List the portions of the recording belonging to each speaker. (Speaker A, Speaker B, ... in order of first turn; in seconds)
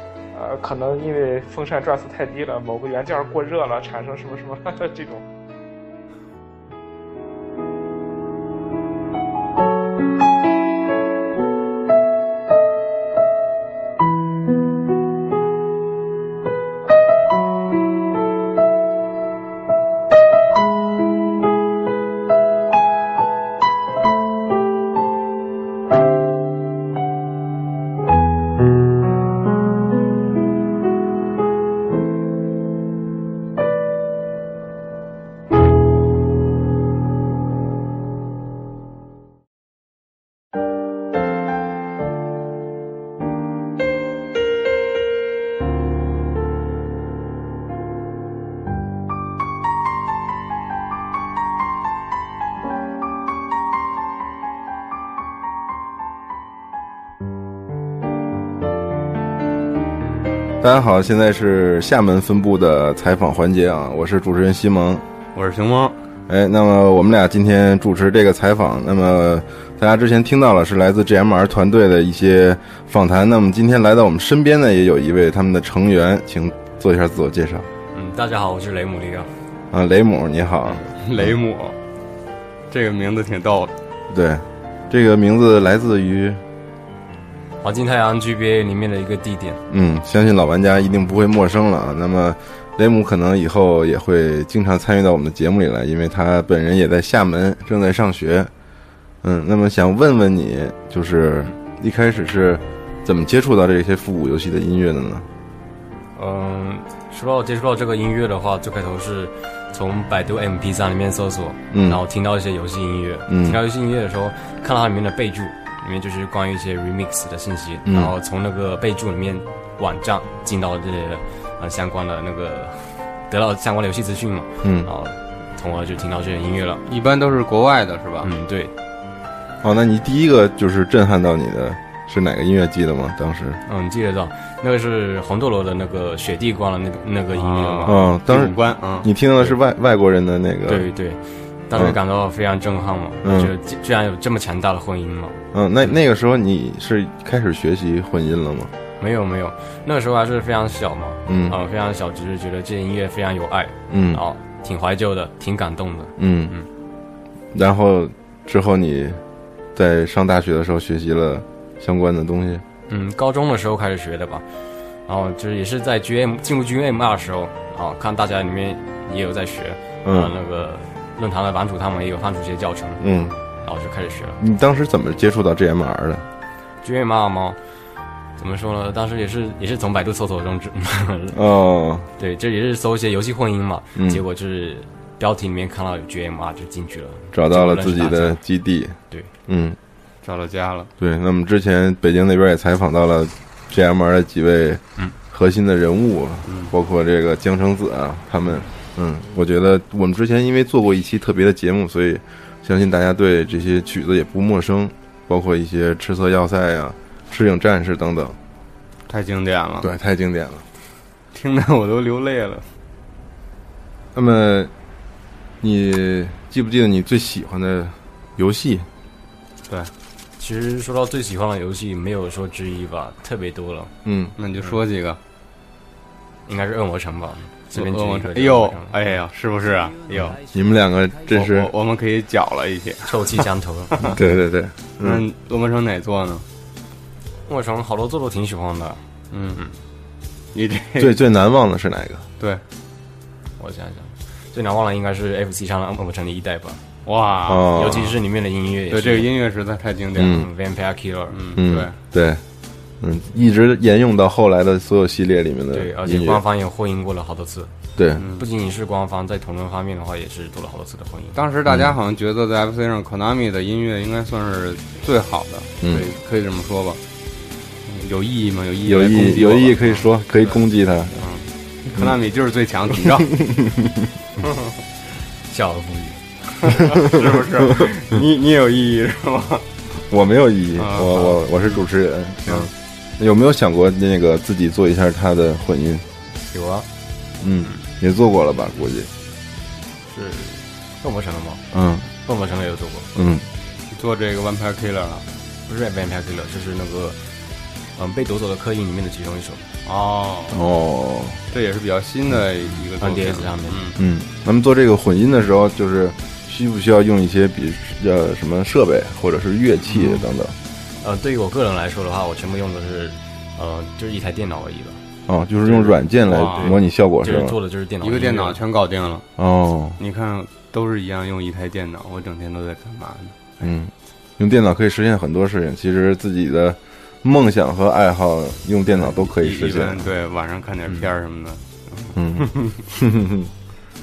Speaker A: 0.3-5.3
Speaker B: 60.6-65.0, 66.3-77.7, 79.7-81.3, 84.1-86.4, 89.7-98.5, 99.2-105.3, 111.7-112.0, 113.3-113.6, 117.9-118.1, 124.6-124.9, 129.6-133.6, 137.9-140.9, 141.7-142.0, 143.2-143.5, 145.5-148.7, 151.3-151.6, 153.9-154.2, 156.2-156.6, 157.5-159.2, 159.8-162.6, 170.1-170.3, 173.0-173.4, 174.4-176.2, 181.3-182.1, 184.0-184.2, 187.3-189.8, 191.0-208.4, 209.8-210.6, 214.2-214.7, 215.6-218.9, 224.1-224.3, 230.4-231.7, 234.0-235.2, 241.0-242.3, 247.5-248.1, 250.2-250.5, 251.6-252.4, 253.0-256.4, 258.0-258.2, 261.7-261.9, 265.8-266.1, 268.9-271.1, 273.0-274.1, 280.1-286.1, 287.4-289.1, 291.7-292.1, 293.1-293.5, 300.5-301.4, 304.0-310.6, 315.3-317.6, 319.4-320.0, 323.6-330.1, 332.2-333.5
Speaker C: 65.3-66.0, 80.7-81.8, 82.7-83.7, 126.9-128.3, 137.3-139.1, 190.2-190.9, 196.5-196.7, 209.1-209.9, 211.3-212.7, 224.4-225.2, 227.7-230.4, 231.3-234.2, 235.0-236.4, 239.3-239.7, 240.5-241.1, 247.1-248.1, 248.9-250.4, 251.3-251.9, 258.2-258.5, 261.4-267.0, 267.9-270.0, 271.1-273.3, 274.4-274.7, 276.6-279.7, 280.8-281.8, 293.9-295.3, 299.9-300.6, 301.5-304.0, 315.6-316.8, 318.0-319.3, 320.0-323.4, 329.0-332.7
Speaker D: 77.9-79.3, 87.6-89.6, 106.2-126.8, 128.2-128.7, 133.7-138.0, 140.7-145.4, 149.0-156.7, 162.9-164.5, 165.1-173.1, 173.6-174.4, 176.8-177.6, 178.4-181.4, 182.2-188.4, 220.4-223.9, 226.5-229.2, 230.1-230.3, 233.1-234.1, 237.5-239.1, 243.6-246.8, 247.7-249.3, 250.2-251.6, 255.7-261.4, 275.5-276.8, 286.5-286.9, 290.1-291.6, 292.2-293.1, 295.7-297.2, 297.9-299.7, 302.8-303.9, 311.0-315.0, 316.4-318.6